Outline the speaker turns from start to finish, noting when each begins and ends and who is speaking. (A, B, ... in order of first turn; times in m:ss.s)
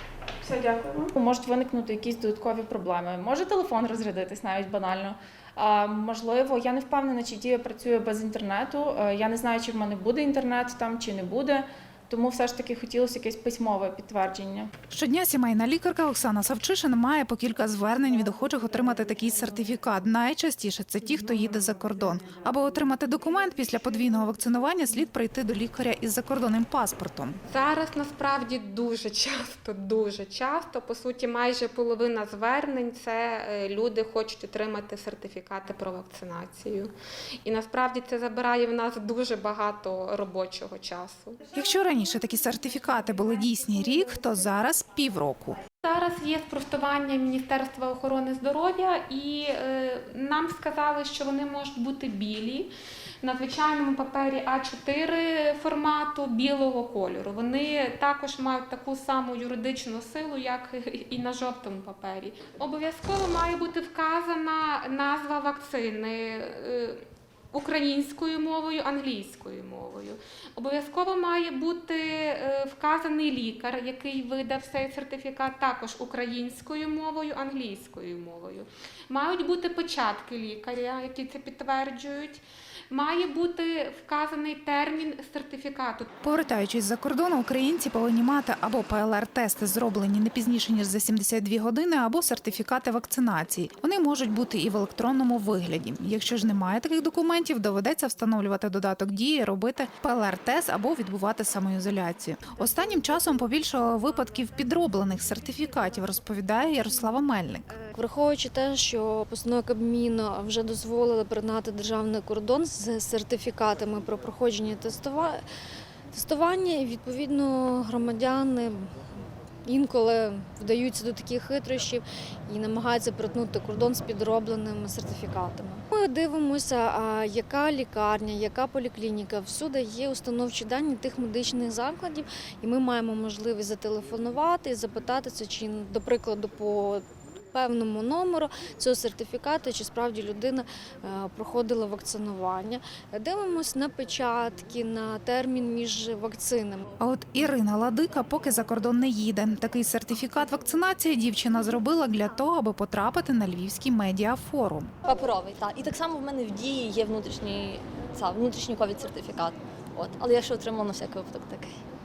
0:00.4-0:14.7 A
0:14.9-0:27.4 B
0:27.5-0:36.9 C
0:37.4-0:41.4 C
0:41.5-0:45.6 B
0:45.8-1:26.1 C
1:26.2-1:47.7 B
1:47.9-1:55.4 D
1:56.1-1:59.0 D
1:59.7-2:26.9 D
2:27.0-2:34.9 B
2:35.1-2:41.7 E